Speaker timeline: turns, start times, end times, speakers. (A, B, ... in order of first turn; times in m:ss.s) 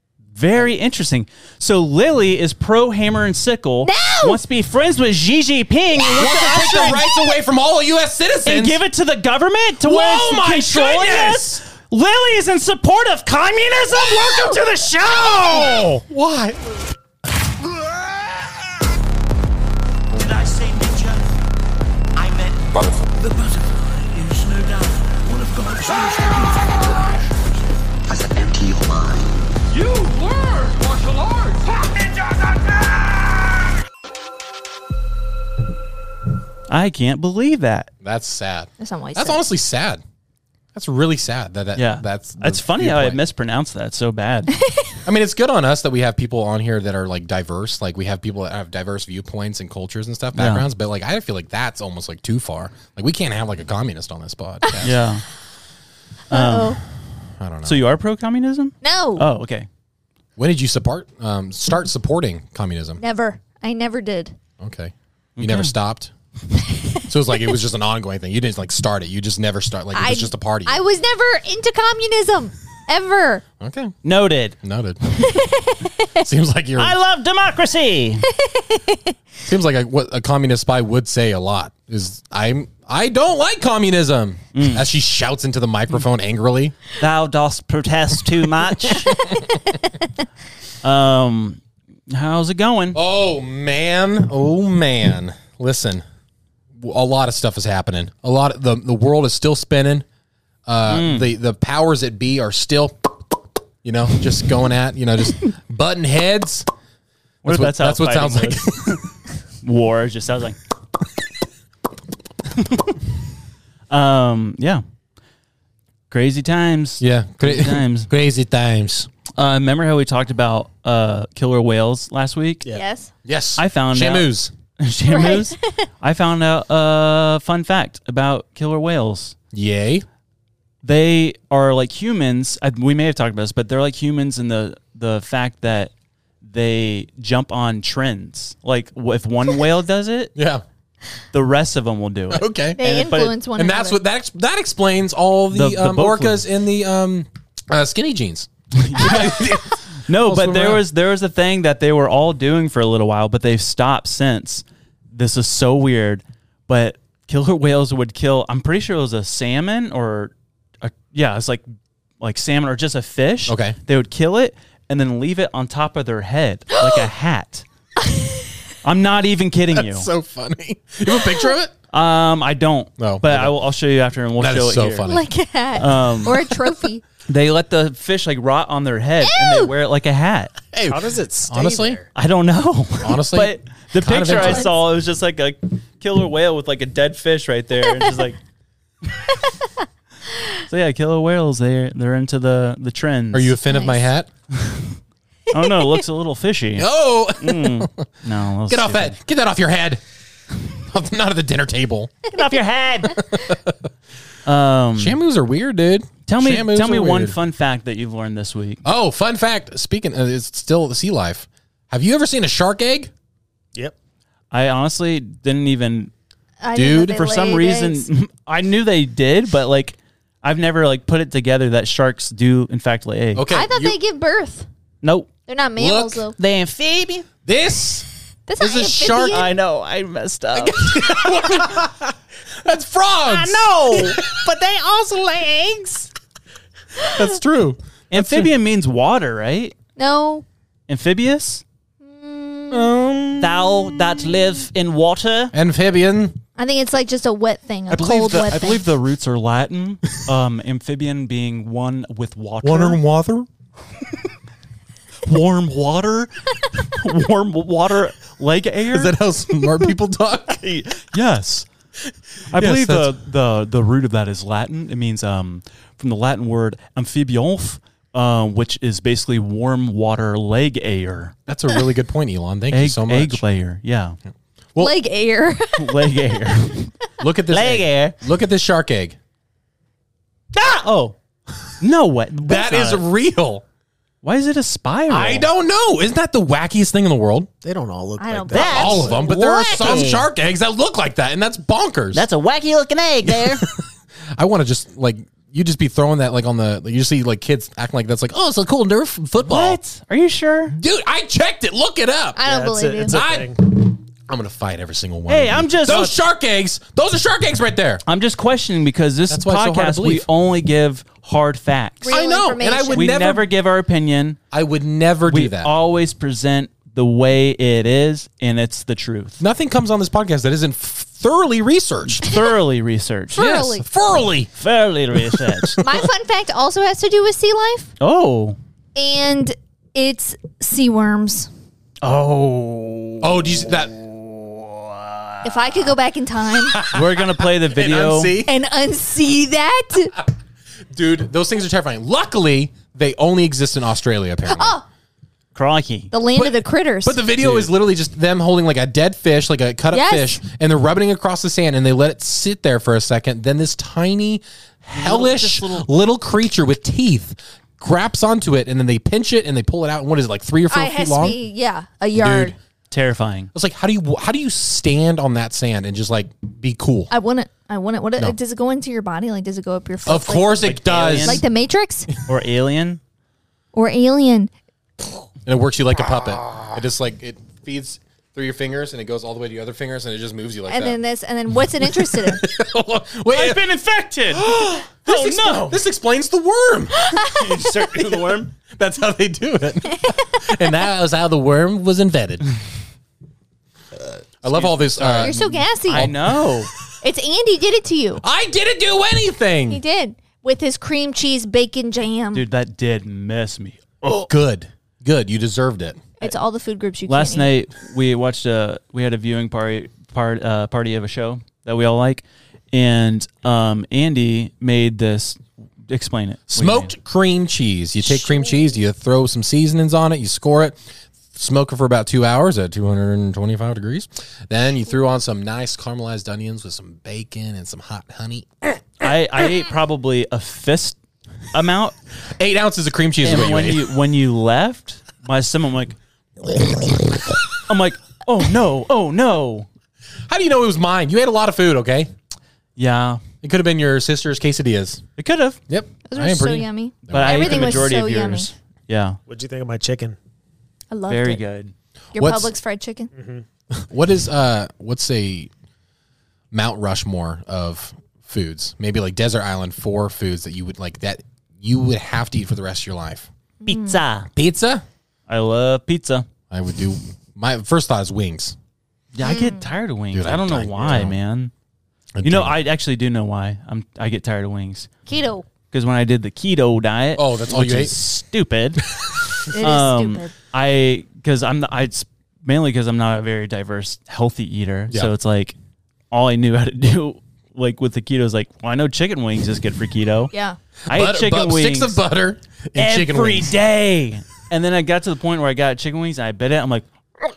0:00.3-0:07.0 A
0:03.8-0:04.4 B
0:06.0-0:07.2 B
0:06.1-0:08.8 C
0:08.4-0:15.9 A
0:09.8-0:11.6 C
0:13.9-0:16.8 C
0:14.0-0:14.6 B
0:20.2-0:21.3 D
0:22.2-0:27.5 D
0:28.1-0:33.0 D
0:36.7-0:37.9 A
0:38.0-0:40.0 C
0:38.8-0:39.4 B
0:40.7-0:43.2 C
0:41.8-0:44.6 A
0:44.6-0:45.0 B
0:45.0-0:55.0 C
0:50.4-0:50.7 A
0:54.8-0:55.2 A
0:56.3-0:56.8 A
0:56.3-0:56.8 B
0:57.4-0:57.8 C
0:57.6-0:59.7 A
0:58.8-0:59.3 B
1:00.4-1:03.0 C
1:03.0-1:04.4 B
1:04.6-1:06.1 C
1:05.4-1:05.7 A
1:07.1-1:10.8 C
1:09.9-1:13.4 B
1:13.6-1:14.0 C
1:14.0-1:14.6 A
1:14.6-1:15.4 C
1:15.3-1:16.2 B
1:16.2-1:17.0 C
1:16.8-1:18.3 A
1:18.4-1:19.1 B
1:19.4-1:26.8 C
1:24.5-1:24.8 A
1:27.0-1:29.1 A
1:28.9-1:29.6 C
1:30.8-1:33.0 A
1:32.9-1:36.0 C
1:36.8-1:40.1 C
1:40.7-1:43.2 C
1:40.9-1:41.3 A
1:43.8-1:46.7 C
1:47.4-1:49.0 A
1:47.4-1:49.0 C
1:49.6-1:50.6 A
1:52.5-1:53.0 A
1:53.9-1:54.8 A
1:56.1-1:58.1 A
1:57.0-1:59.1 C
1:59.4-2:02.6 A
2:02.7-2:03.1 B
2:03.2-2:04.5 C
2:03.6-2:09.4 A
2:05.1-2:05.9 B
2:09.5-2:10.0 C
2:10.8-2:15.9 A
2:16.4-2:20.3 A
2:20.4-2:20.6 C
2:21.3-2:23.4 A
2:22.3-2:22.8 C
2:22.8-2:24.0 B
2:23.6-2:30.8 C
2:25.5-2:26.4 A
2:28.7-2:29.5 A
2:30.0-2:41.7 A
2:42.2-2:47.7 A
2:43.5-2:43.8 C
2:48.1-2:48.4 B
2:48.8-2:50.1 A
2:49.7-2:51.7 C
2:51.9-2:55.1 A
2:53.0-2:53.6 C
2:54.4-2:55.2 C
2:55.0-2:57.0 B
2:55.8-2:56.4 A
2:57.3-3:00.5 A
2:59.2-2:59.7 B
3:00.7-3:02.0 C
3:00.9-3:02.1 E
3:02.2-3:08.4 A
3:03.0-3:04.7 C
3:04.3-3:04.7 B
3:10.7-3:13.6 A
3:13.3-3:14.3 C
3:13.7-3:14.0 B
3:14.5-3:15.0 A
3:15.5-3:19.2 A
3:16.8-3:18.1 C
3:18.7-3:20.0 C
3:20.6-3:22.3 C
3:22.3-3:23.2 A
3:23.1-3:23.8 C
3:24.4-3:25.2 A
3:25.0-3:27.4 C
3:26.3-3:28.8 A
3:28.8-3:33.1 C
3:34.5-3:36.1 A
3:36.6-3:38.1 B
3:36.8-3:37.2 C
3:37.1-3:43.4 A
3:43.3-3:44.0 C
3:43.5-3:44.7 B
3:45.0-3:45.3 A
3:45.5-3:46.4 B
3:45.8-3:46.3 C
3:46.4-3:47.3 A
3:47.5-3:48.1 C
3:48.5-3:49.5 B
3:48.6-3:49.5 C
3:49.3-3:51.8 A
3:50.6-3:54.4 C
3:53.2-3:56.1 A
3:57.1-3:58.5 C
3:58.1-3:59.8 A
4:00.0-4:00.5 B
4:00.9-4:01.6 A
4:02.0-4:03.0 B
4:02.7-4:04.2 C
4:03.4-4:05.5 A
4:05.5-4:06.4 C
4:06.6-4:08.9 B
4:07.9-4:13.0 A
4:12.6-4:13.5 C
4:15.2-4:19.2 A
4:18.9-4:20.6 C
4:20.6-4:21.7 A
4:22.5-4:23.2 C
4:22.5-4:31.4 A
4:31.5-4:33.4 C
4:32.7-4:34.2 A
4:34.8-4:36.4 B
4:35.8-4:36.9 A
4:37.2-4:39.2 C
4:37.5-4:38.2 A
4:40.5-4:41.2 A
4:41.8-4:43.1 A
4:42.4-4:43.6 C
4:44.2-4:45.5 A
4:45.1-4:47.5 C
4:47.6-4:49.2 E
4:48.2-4:49.2 B
4:48.5-4:50.3 A
4:48.6-4:52.3 C
4:52.1-4:53.7 A
4:53.2-4:53.9 C
4:54.4-4:59.8 C
4:59.4-5:00.8 A
5:00.7-5:02.4 C
5:02.4-5:03.2 B
5:02.5-5:03.6 E
5:03.1-5:08.0 C
5:05.3-5:06.2 A
5:08.1-5:12.1 A
5:09.3-5:10.3 C
5:12.0-5:13.2 B
5:12.1-5:13.5 C
5:12.9-5:14.4 A
5:14.5-5:15.7 C
5:15.3-5:19.4 A
5:19.4-5:22.3 C
5:22.2-5:23.5 A
5:23.3-5:23.9 B
5:23.4-5:24.5 C
5:24.6-5:25.8 A
5:25.2-5:26.0 C
5:25.8-5:27.9 B
5:28.0-5:28.6 A
5:29.0-5:31.5 B
5:32.0-5:35.7 A
5:33.2-5:34.0 C
5:35.4-5:36.8 B
5:36.7-5:38.5 C
5:36.9-5:38.4 A
5:38.4-5:40.2 B
5:40.9-5:44.8 C
5:44.5-5:44.8 B
5:45.6-5:46.1 A
5:46.1-5:47.2 B
5:46.4-6:01.4 C
5:47.4-5:47.7 A
5:49.9-5:50.4 B
5:54.9-5:55.9 A
6:00.7-6:02.6 B
6:02.1-6:02.6 C
6:02.9-6:03.5 A
6:03.5-6:07.1 C
6:07.1-6:10.6 B
6:10.0-6:11.4 C
6:10.6-6:11.4 A
6:11.2-6:12.1 B
6:12.3-6:13.0 A
6:13.7-6:14.5 B
6:15.5-6:21.0 C
6:20.7-6:22.5 B
6:21.8-6:23.6 C
6:23.3-6:24.5 A
6:24.3-6:32.5 C
6:25.0-6:25.8 A
6:27.0-6:27.4 B
6:27.3-6:28.5 A
6:34.4-6:36.6 C
6:34.4-6:36.7 A
6:35.2-6:36.1 B
6:37.0-6:38.2 B
6:38.2-6:39.8 C
6:39.7-6:42.4 B
6:42.3-6:44.3 A
6:44.3-6:46.0 C
6:46.2-6:47.5 B
6:47.1-6:56.9 A
6:56.5-7:00.8 C
6:58.1-6:58.6 B
7:01.3-7:09.1 C
7:09.0-7:11.0 A
7:11.5-7:12.0 A
7:12.4-7:13.9 C
7:13.2-7:16.0 A
7:17.7-7:19.7 A
7:20.3-7:22.1 C
7:22.8-7:23.2 A
7:23.4-7:25.0 C
7:25.2-7:25.6 A
7:25.7-7:27.9 C
7:26.1-7:28.5 B
7:27.1-7:29.2 A
7:29.3-7:30.2 E
7:30.9-7:31.4 B
7:31.1-7:31.7 A
7:32.1-7:33.1 B
7:32.2-7:32.5 C
7:33.2-7:33.4 E
7:33.8-7:35.5 C
7:36.5-7:43.3 C
7:43.6-7:44.0 B
7:43.7-7:44.3 A
7:44.4-7:44.8 C
7:45.3-7:46.3 A
7:46.5-7:48.6 C
7:49.1-7:51.5 A
7:49.2-7:49.7 B
7:50.1-7:51.1 C
7:52.2-7:52.6 C
7:52.2-7:54.9 A
7:55.1-7:55.5 B
7:55.7-7:58.9 A
7:57.2-7:58.0 C
7:58.9-7:59.3 C
7:59.5-8:00.3 B
7:59.5-8:05.6 A
8:06.1-8:10.3 A
8:10.3-8:10.6 B
8:10.9-8:12.0 A
8:10.9-8:13.5 C
8:12.8-8:16.9 A